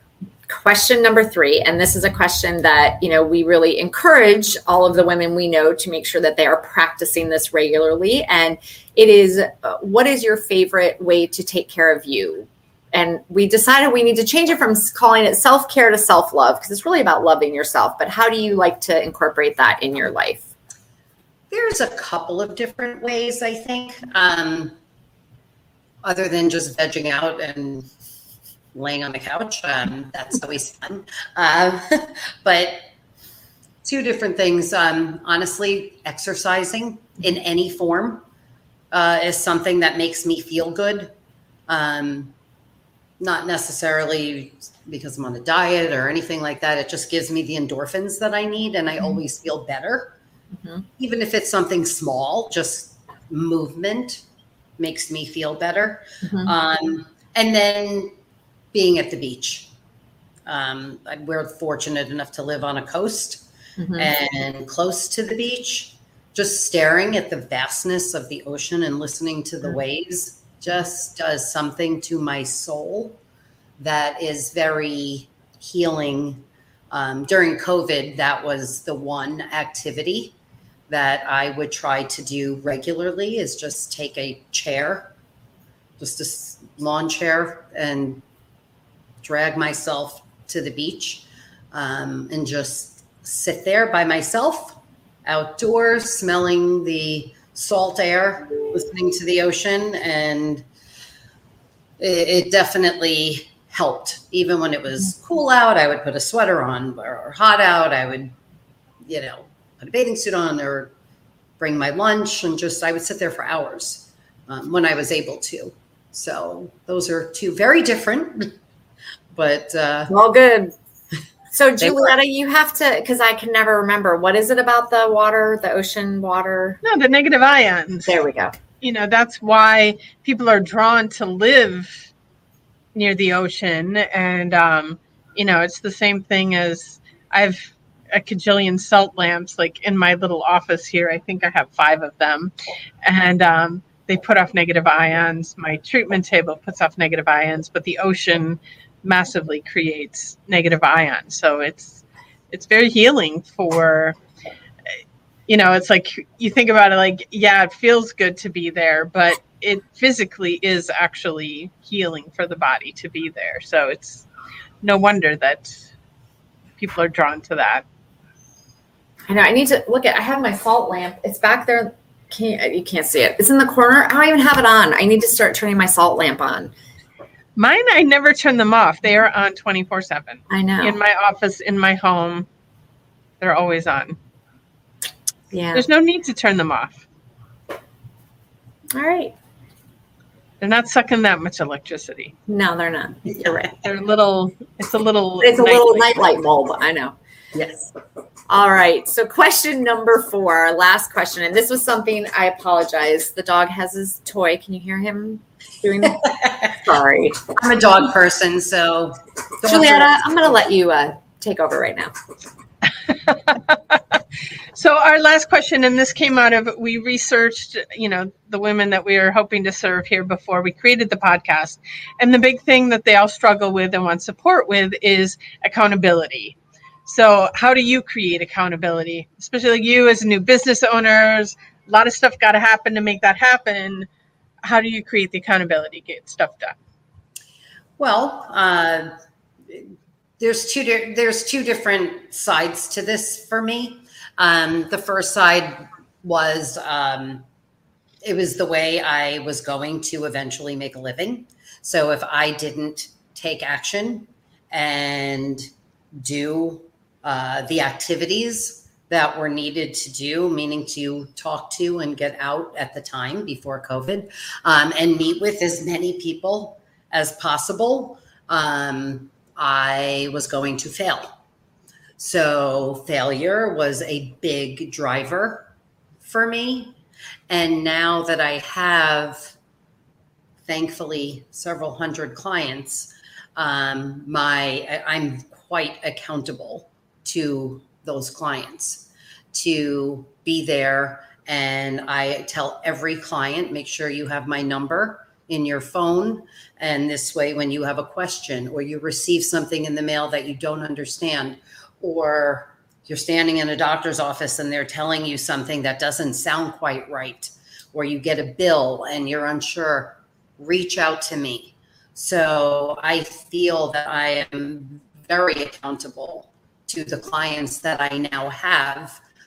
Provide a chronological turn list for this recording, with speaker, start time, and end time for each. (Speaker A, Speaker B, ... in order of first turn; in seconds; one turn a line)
Speaker A: 0.5-20.5
Speaker B: 21.5-24.8
Speaker B: 26.0-27.9
Speaker B: 28.8-32.8
Speaker B: 33.8-38.2
Speaker B: 38.9-41.1
Speaker B: 41.7-42.3
Speaker B: 43.2-50.1
Speaker B: 51.0-54.2
Speaker B: 54.8-58.1
Speaker A: 56.3-56.5
Speaker B: 58.7-59.7
Speaker B: 60.5-63.5
Speaker A: 63.8-64.1
Speaker B: 64.0-73.2
Speaker B: 73.8-80.3
Speaker B: 80.9-85.1
Speaker B: 86.0-88.2
Speaker B: 89.2-100.7
Speaker B: 102.0-108.3
Speaker B: 109.1-110.9
Speaker B: 111.6-118.5
Speaker B: 119.3-120.1
Speaker A: 120.1-120.7
Speaker A: 121.5-126.8
Speaker B: 121.8-122.1
Speaker C: 126.8-128.1
Speaker A: 128.1-128.6
Speaker C: 128.8-132.1
Speaker C: 132.9-142.5
Speaker C: 143.0-154.2
Speaker C: 155.5-164.3
Speaker C: 164.8-165.8
Speaker C: 166.8-167.8
Speaker A: 169.3-176.7
Speaker C: 177.6-182.5
Speaker A: 180.5-181.0
Speaker C: 183.4-184.2
Speaker A: 185.5-185.9
Speaker C: 185.7-187.1
Speaker A: 188.9-189.3
Speaker C: 190.6-192.3
Speaker A: 192.5-193.7
Speaker C: 193.8-196.1
Speaker A: 195.4-197.2
Speaker B: 197.5-197.9
Speaker A: 198.5-207.5
Speaker B: 207.5-210.5
Speaker A: 209.7-212.1
Speaker C: 213.3-214.0
Speaker C: 214.8-234.1
Speaker C: 234.7-236.8
Speaker B: 238.0-239.1
Speaker B: 240.4-247.4
Speaker B: 248.2-271.4
Speaker B: 272.2-275.7
Speaker B: 276.2-276.9
Speaker B: 277.5-279.5
Speaker B: 280.6-319.2